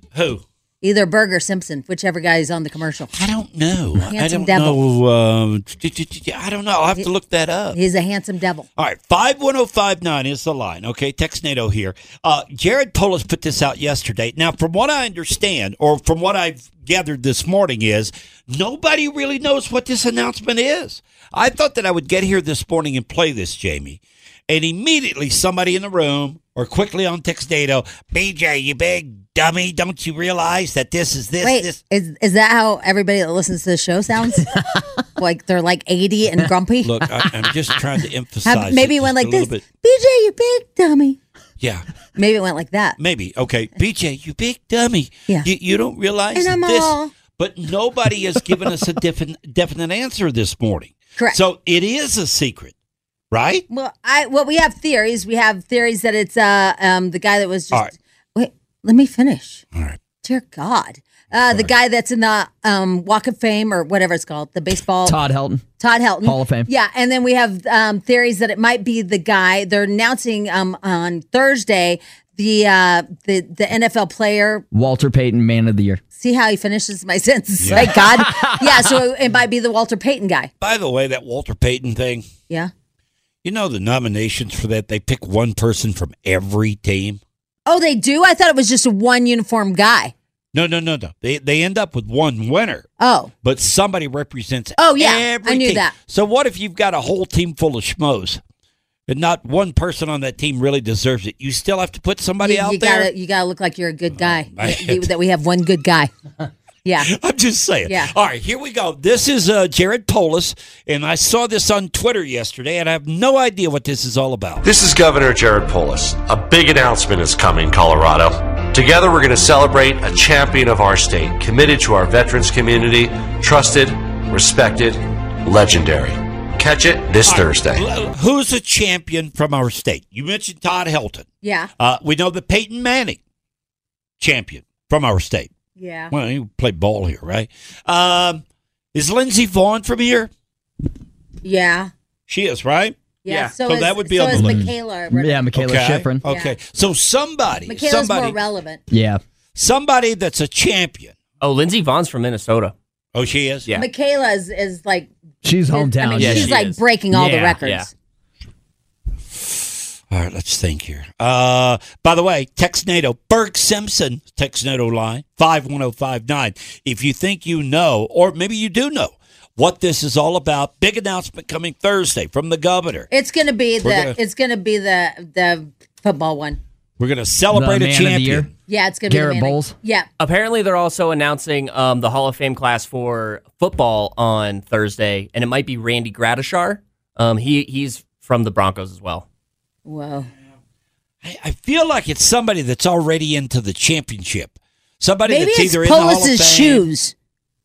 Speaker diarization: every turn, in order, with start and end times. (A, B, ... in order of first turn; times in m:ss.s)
0:00.1-0:00.4 A
0:00.8-0:03.1 B
0:03.1-0:07.8 A
0:04.0-0:04.8 B
0:07.7-0:08.7 B
0:08.8-0:31.8 A
0:31.4-0:34.6 B
0:35.2-0:37.0 B
0:36.8-0:39.6 A
0:38.4-0:41.2 B
0:42.2-0:43.0 B
0:43.0-0:52.7 A
0:46.3-0:47.1 B
0:53.3-0:53.6 A
0:53.7-0:59.6 B
1:00.2-1:05.2 B
1:05.0-1:05.6 C
1:05.8-1:14.6 B
1:06.2-1:06.7 C
1:14.7-1:16.0 C
1:16.2-1:20.5 B
1:17.6-1:18.0 A
1:17.7-1:18.9 C
1:20.6-1:22.3 A
1:23.4-1:27.2 A
1:27.7-1:30.1 B
1:30.5-1:32.9 A
1:33.0-1:33.3 B
1:33.4-1:38.4 A
1:34.8-1:35.9 B
1:39.1-1:43.1 A
1:42.4-1:46.1 B
1:44.2-1:45.1 A
1:46.8-1:47.1 B
1:47.0-1:54.7 A
1:47.9-1:48.1 B
1:54.6-2:07.9 D
2:07.2-2:11.3 A
2:11.4-2:11.7 B
2:11.8-2:13.2 A
2:14.2-2:15.5 A
2:15.8-2:16.1 B
2:16.1-2:20.3 A
2:21.4-2:21.9 B
2:22.3-2:24.7 A
2:23.2-2:25.4 B
2:24.3-2:26.2 C
2:25.6-2:28.4 A
2:26.3-2:26.6 B
2:27.7-2:28.8 B
2:28.9-2:29.2 C
2:29.6-2:31.2 A
2:31.4-2:32.8 E
2:33.2-2:33.7 A
2:33.7-2:35.1 B
2:35.4-2:36.6 C
2:35.7-2:37.9 B
2:36.2-2:36.8 E
2:37.2-2:37.6 C
2:37.6-2:37.9 E
2:40.1-2:53.1 A
2:53.1-2:56.6 B
2:53.8-2:54.2 A
2:57.0-2:58.5 A
2:57.5-2:58.5 C
2:58.7-3:00.1 B
2:59.1-2:59.8 C
3:00.2-3:09.2 E
3:09.9-3:10.3 B
3:11.2-3:16.8 A
3:15.3-3:17.2 B